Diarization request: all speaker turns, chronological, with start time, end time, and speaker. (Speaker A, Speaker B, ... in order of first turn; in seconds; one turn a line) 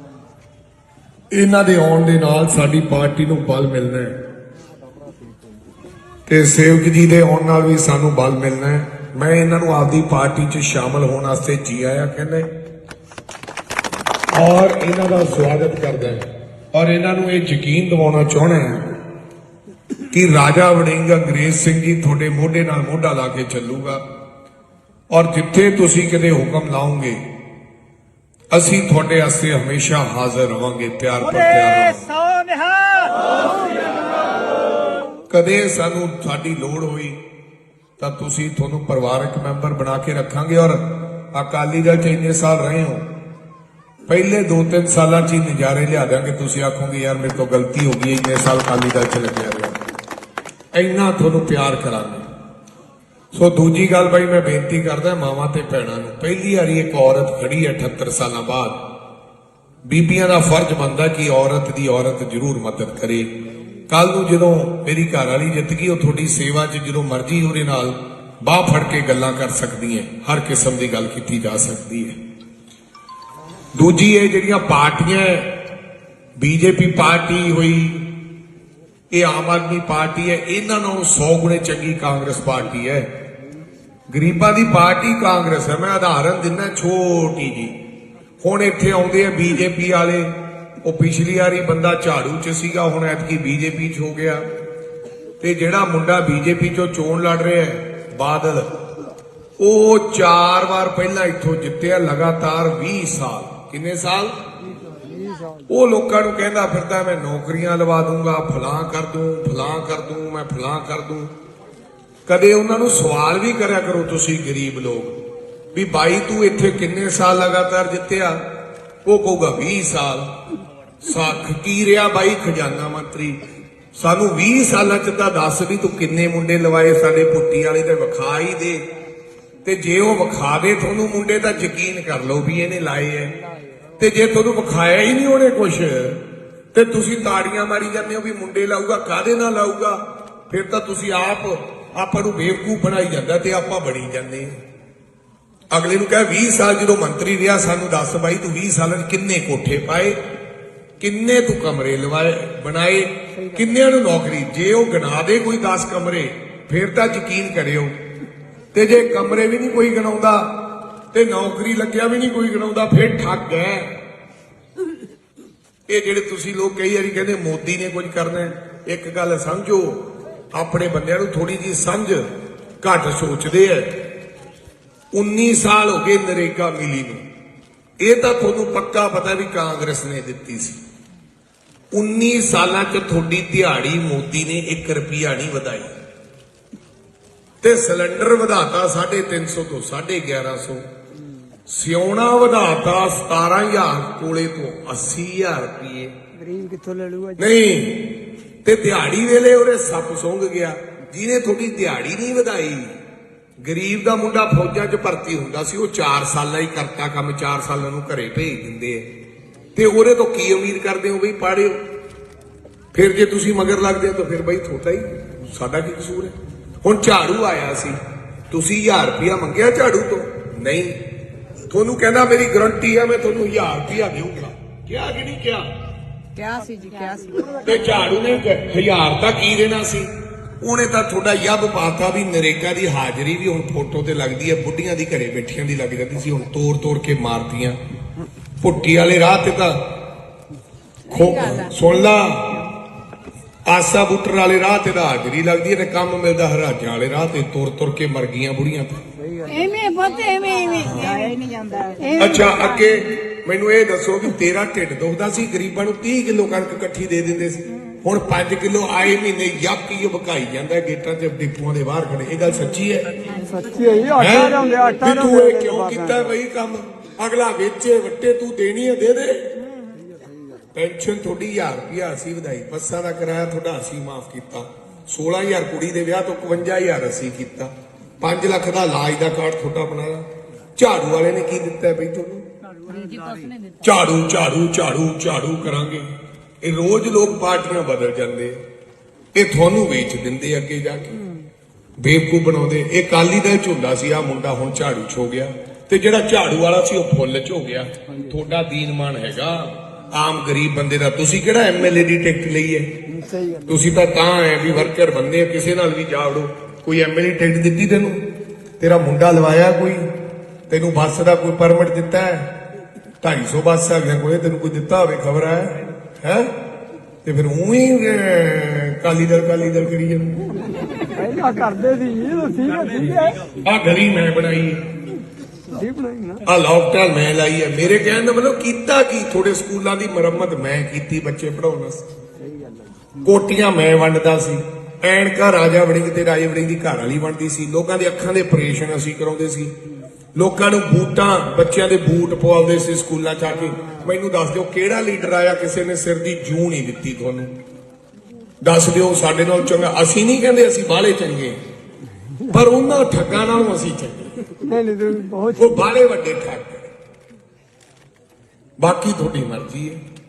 Speaker A: 1.3-4.2
Speaker A: 6.3-12.5
Speaker A: 14.3-19.0
Speaker A: 20.1-24.0
Speaker A: 25.1-27.2
Speaker A: 28.5-32.2
Speaker B: 32.2-33.2
Speaker A: 35.3-37.2
Speaker A: 38.0-43.1
Speaker A: 44.1-49.8
Speaker A: 50.7-52.2
Speaker A: 53.3-58.8
Speaker A: 59.9-63.3
Speaker A: 63.9-72.2
Speaker A: 73.8-75.5
Speaker A: 76.4-78.1
Speaker A: 79.1-83.1
Speaker A: 84.1-87.8
Speaker A: 88.4-94.5
Speaker A: 95.4-98.8
Speaker A: 99.6-104.4
Speaker B: 104.9-105.3
Speaker A: 105.7-111.3
Speaker A: 112.3-115.2
Speaker A: 115.7-118.4
Speaker A: 119.0-120.3
Speaker A: 121.0-123.4
Speaker A: 124.0-128.9
Speaker A: 129.7-133.3
Speaker A: 134.0-144.6
Speaker A: 145.7-150.2
Speaker A: 151.0-157.9
Speaker A: 158.7-160.5
Speaker A: 161.1-163.9
Speaker A: 165.9-172.3
Speaker A: 172.8-173.9
Speaker A: 175.1-177.2
Speaker A: 178.0-180.8
Speaker A: 181.9-185.9
Speaker A: 187.6-190.8
Speaker A: 191.7-196.2
Speaker B: 196.4-197.5
Speaker A: 197.4-202.9
Speaker A: 203.6-209.1
Speaker A: 209.8-211.8
Speaker A: 212.9-218.0
Speaker A: 218.5-221.0
Speaker A: 221.7-225.7
Speaker C: 226.4-227.6
Speaker A: 227.6-230.1
Speaker A: 230.6-237.8
Speaker A: 238.6-239.8
Speaker C: 241.1-241.8
Speaker A: 241.1-242.6
Speaker A: 243.7-249.0
Speaker B: 249.3-249.7
Speaker C: 249.5-251.3
Speaker A: 250.8-251.3
Speaker C: 252.1-252.5
Speaker A: 252.2-263.1
Speaker B: 263.4-266.3
Speaker A: 264.2-269.4
Speaker A: 270.7-282.5
Speaker C: 282.9-283.6
Speaker A: 283.8-286.1
Speaker A: 286.6-288.6
Speaker A: 289.4-291.2
Speaker A: 292.0-302.9
Speaker B: 303.1-303.8
Speaker A: 303.7-308.2
Speaker A: 308.8-310.1
Speaker A: 310.7-312.5
Speaker A: 313.2-316.5
Speaker A: 317.2-320.5
Speaker B: 321.1-323.5
Speaker A: 323.5-324.9
Speaker B: 325.7-326.4
Speaker A: 326.4-332.0
Speaker A: 333.2-339.8
Speaker A: 340.4-347.6
Speaker A: 348.6-351.6
Speaker A: 352.5-354.4
Speaker B: 354.6-355.8
Speaker A: 355.6-356.9
Speaker A: 358.8-360.0